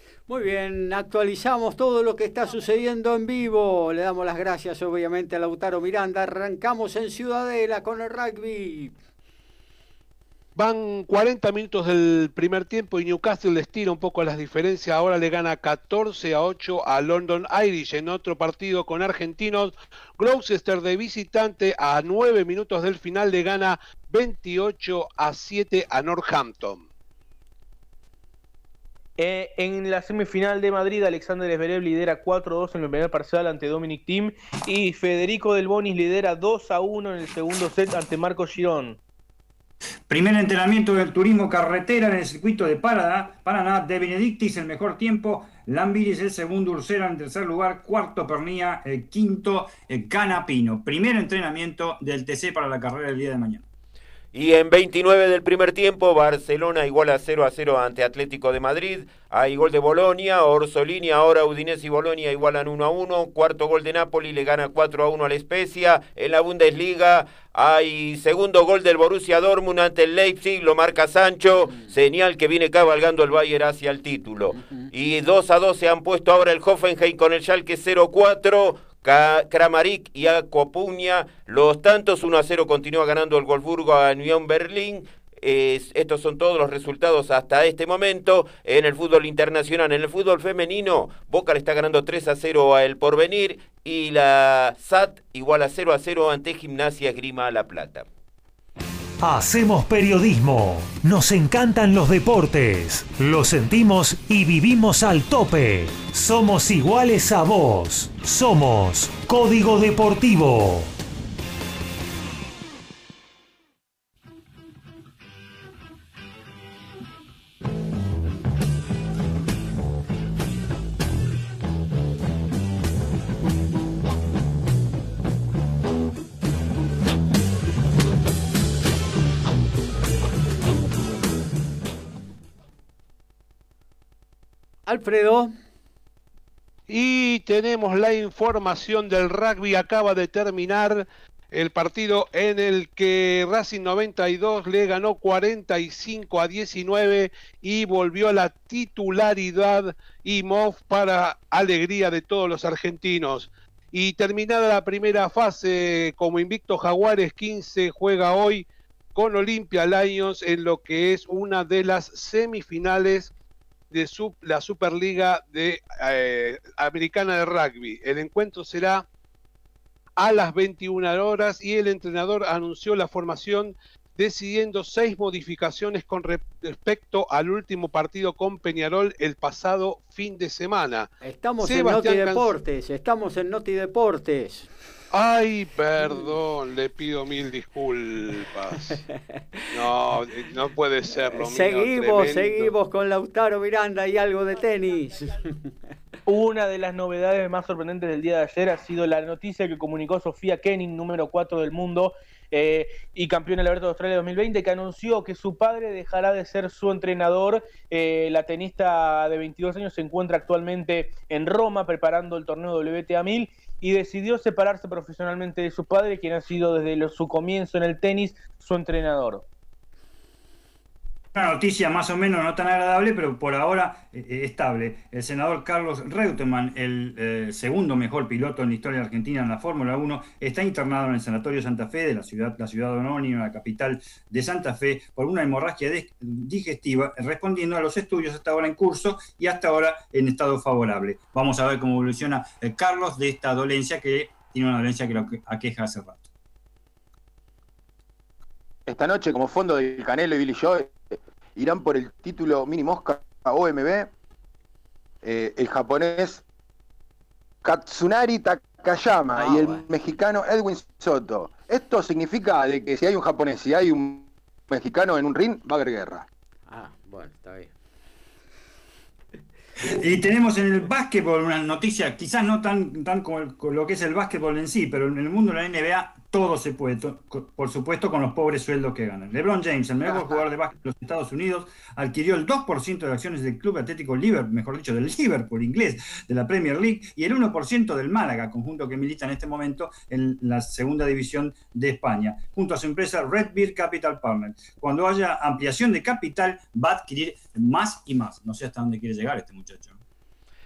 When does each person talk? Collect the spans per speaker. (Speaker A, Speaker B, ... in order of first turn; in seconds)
Speaker A: 0.3-8.9, 74.5-74.9, 134.9-135.5, 181.2-184.7, 191.3-195.7, 259.4-259.8, 266.7-267.7
Speaker B: 10.6-26.9, 136.9-163.3, 163.9-169.1, 170.2-182.5, 185.1-189.0, 189.7-192.7
Speaker C: 29.2-39.0, 196.3-219.4
Speaker D: 40.1-53.6, 221.3-246.3, 269.8-300.0
Speaker E: 54.3-98.1
Speaker F: 99.2-110.9
Speaker G: 248.9-254.1, 255.2-256.4, 257.6-266.3